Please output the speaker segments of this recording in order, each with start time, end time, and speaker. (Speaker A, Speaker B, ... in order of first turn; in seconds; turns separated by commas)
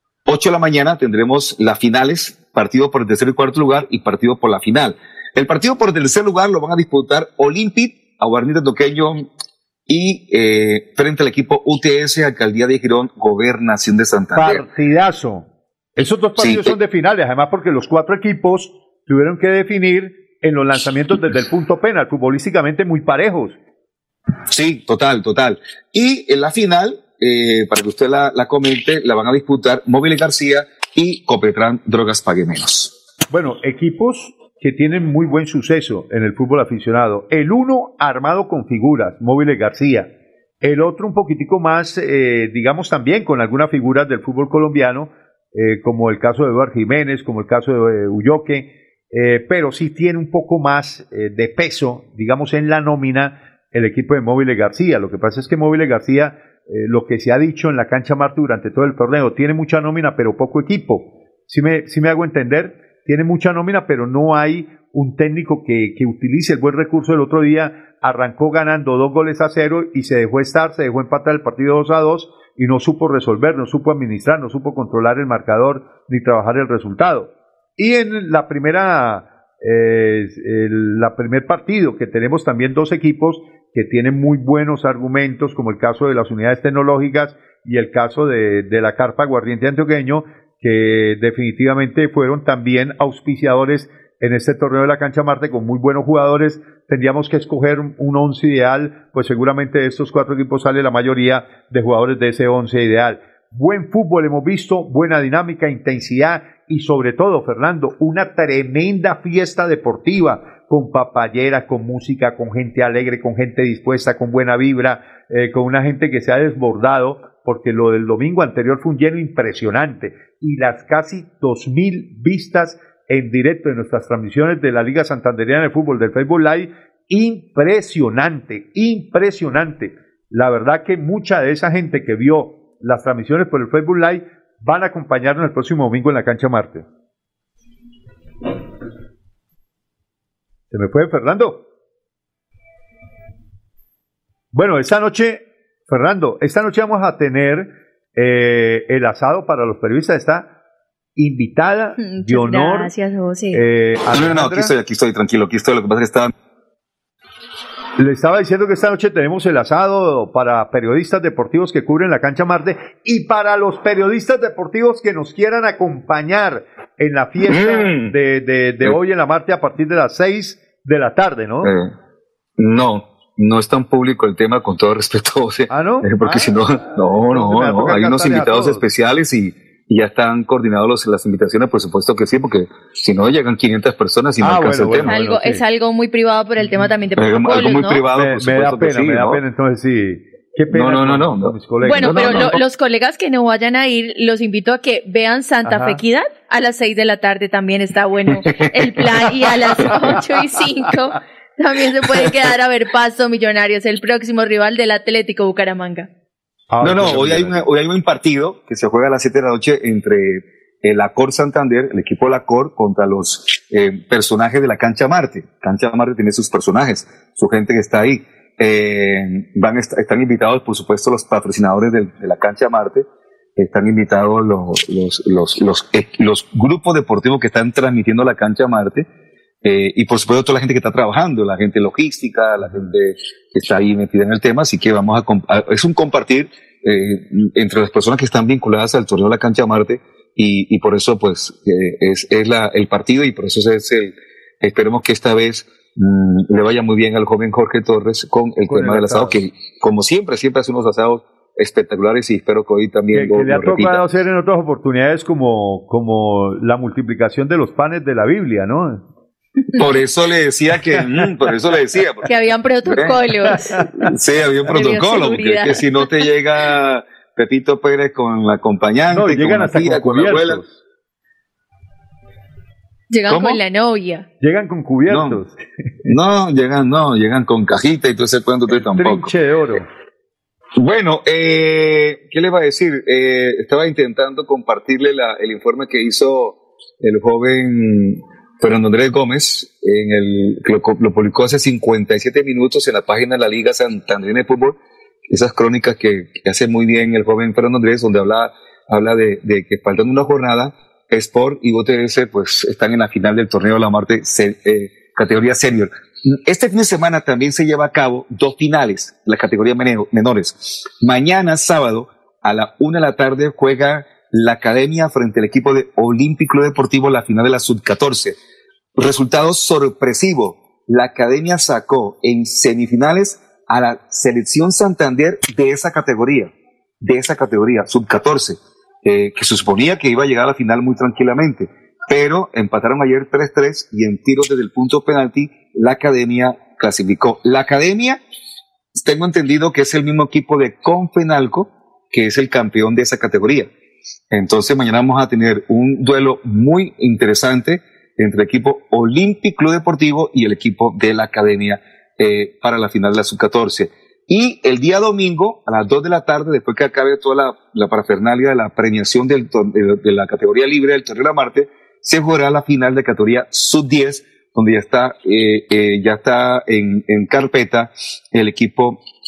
Speaker A: 0.2-9.3, Speaker A: 9.9-14.6, Speaker B: 14.3-23.6, Speaker A: 16.4-16.7, Speaker A: 24.5-32.9, Speaker B: 33.3-40.1, Speaker B: 40.6-136.8, Speaker B: 140.7-141.6, Speaker B: 144.5-150.5, Speaker B: 151.2-152.9, Speaker C: 152.0-153.6, Speaker B: 153.5-154.7, Speaker A: 154.1-156.3, Speaker B: 158.0-171.7, Speaker A: 167.4-168.1, Speaker A: 171.6-171.9, Speaker A: 172.6-185.1, Speaker B: 175.7-178.8, Speaker B: 184.4-185.6, Speaker C: 185.1-188.0, Speaker A: 187.2-189.4, Speaker B: 188.1-192.5, Speaker A: 190.7-192.6, Speaker C: 191.8-206.1, Speaker B: 195.7-196.0, Speaker A: 198.6-199.1, Speaker B: 206.7-207.6, Speaker A: 206.8-223.1, Speaker A: 223.6-229.1, Speaker A: 229.6-254.0, Speaker B: 248.7-249.4, Speaker B: 253.1-259.0, Speaker A: 259.8-262.3, Speaker B: 261.0-261.2, Speaker C: 262.2-263.8, Speaker A: 262.9-263.2, Speaker B: 263.7-264.0, Speaker A: 263.7-270.6, Speaker C: 264.7-266.1, Speaker B: 269.1-270.7, Speaker C: 273.1-274.2, Speaker A: 273.3-273.6, Speaker B: 274.4-275.6, Speaker A: 275.1-275.4, Speaker A: 276.0-279.3, Speaker B: 278.7-279.8, Speaker A: 280.8-318.4, Speaker A: 319.0-326.5, Speaker A: 327.0-338.2, Speaker A: 338.9-343.7, Speaker A: 344.3-369.0